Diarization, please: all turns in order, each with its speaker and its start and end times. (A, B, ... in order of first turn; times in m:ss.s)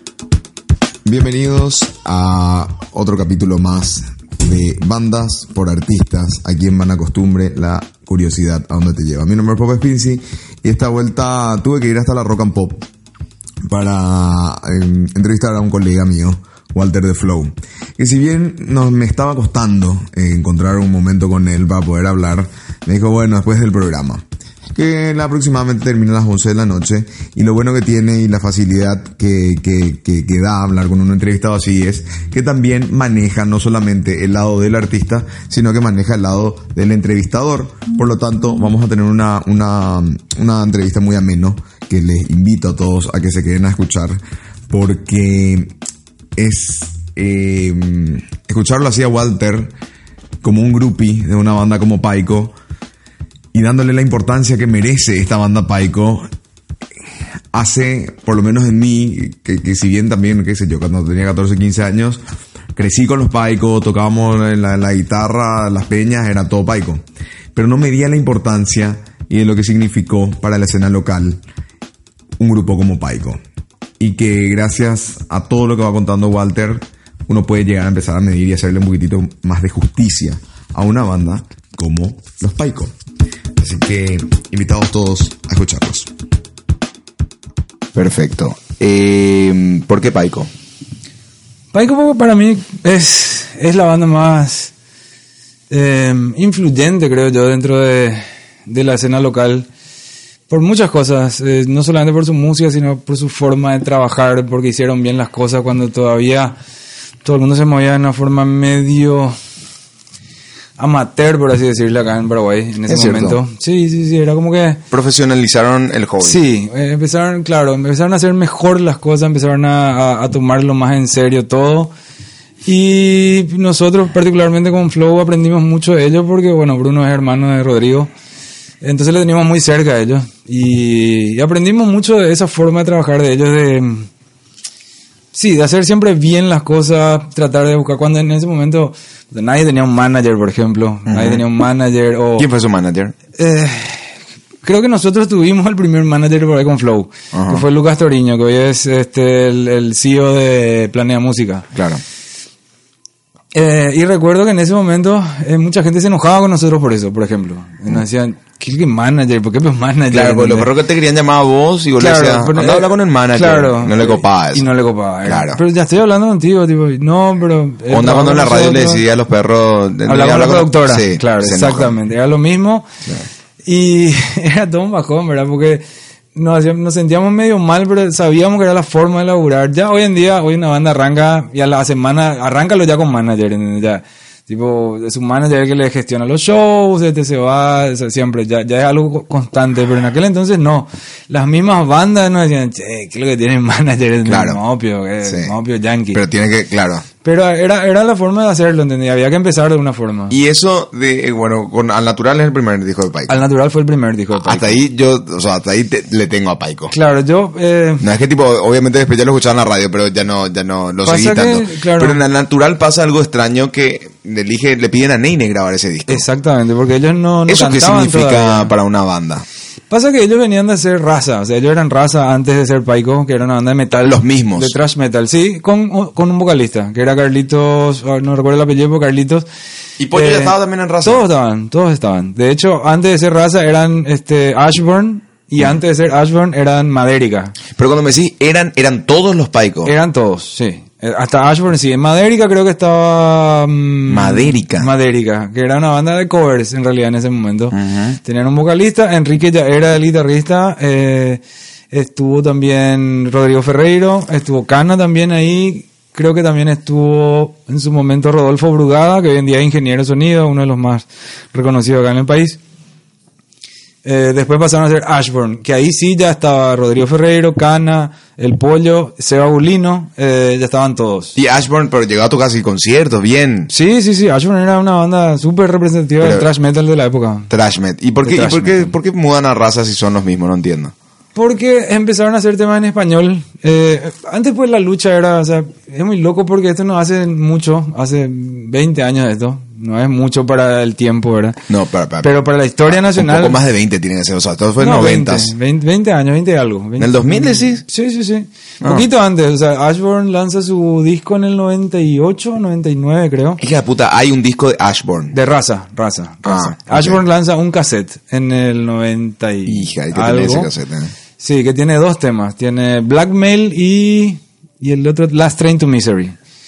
0:01.0-0:12.8 A
0:13.6-0:44.2 A
0:44.7-0:45.7 A
0:46.4-0:49.7 A
0:50.4-0:52.5 A
0:53.5-0:56.3 A
0:57.5-1:02.2 A
1:02.8-1:07.0 A
1:07.6-1:11.4 A
1:12.4-1:13.4 A
1:14.0-1:22.9 A
1:23.6-1:26.1 A
1:28.0-1:30.5 B
1:31.7-1:34.7 C
1:35.7-1:39.7 C
1:40.5-1:46.6 C
1:47.2-1:49.4 C
1:50.8-1:54.8 C
1:52.9-1:53.4 B
1:54.9-1:56.4 B
1:56.2-2:01.9 C
2:02.6-2:08.1 C
2:08.8-2:14.1 C
2:15.3-2:22.5 C
2:21.1-2:21.4 B
2:22.4-2:23.1 B
2:23.4-2:31.7 C
2:27.3-2:27.6 B
2:31.8-2:32.0 B
2:33.5-2:40.7 C
2:40.1-2:44.7 B
2:42.0-2:49.0 C
2:45.2-2:45.6 B
2:47.9-2:51.9 B
2:50.1-2:52.9 C
2:53.7-2:55.8 C
2:56.4-3:16.2 C
3:14.3-3:14.6 B
3:15.2-3:15.5 B
3:16.1-3:17.0 B
3:17.2-3:20.4 C
3:20.3-3:23.4 B
3:23.3-3:24.8 C
3:24.4-3:26.9 B
3:26.9-3:28.0 C
3:28.0-3:36.2 B
3:31.0-3:32.2 C
3:36.1-3:38.7 C
3:37.5-3:39.4 B
3:39.9-3:49.5 C
3:44.0-3:44.8 B
3:50.0-3:51.2 B
3:50.1-3:57.6 C
3:57.8-3:59.9 B
3:59.8-4:22.6 C
4:04.1-4:04.9 B
4:07.7-4:08.2 B
4:24.0-4:31.4 C
4:31.4-4:33.7 B
4:33.7-4:37.5 C
4:36.2-4:36.5 B
4:37.5-4:40.9 B
4:38.2-4:38.9 C
4:41.4-4:51.6 C
4:51.7-4:52.4 B
4:52.2-4:53.6 C
4:52.9-4:55.5 B
4:54.8-5:03.6 C
4:57.0-4:57.8 B
4:58.8-4:59.1 B
5:03.6-5:05.4 B
5:05.3-5:10.7 C
5:06.4-5:07.2 B
5:09.7-5:11.1 B
5:11.4-5:16.4 C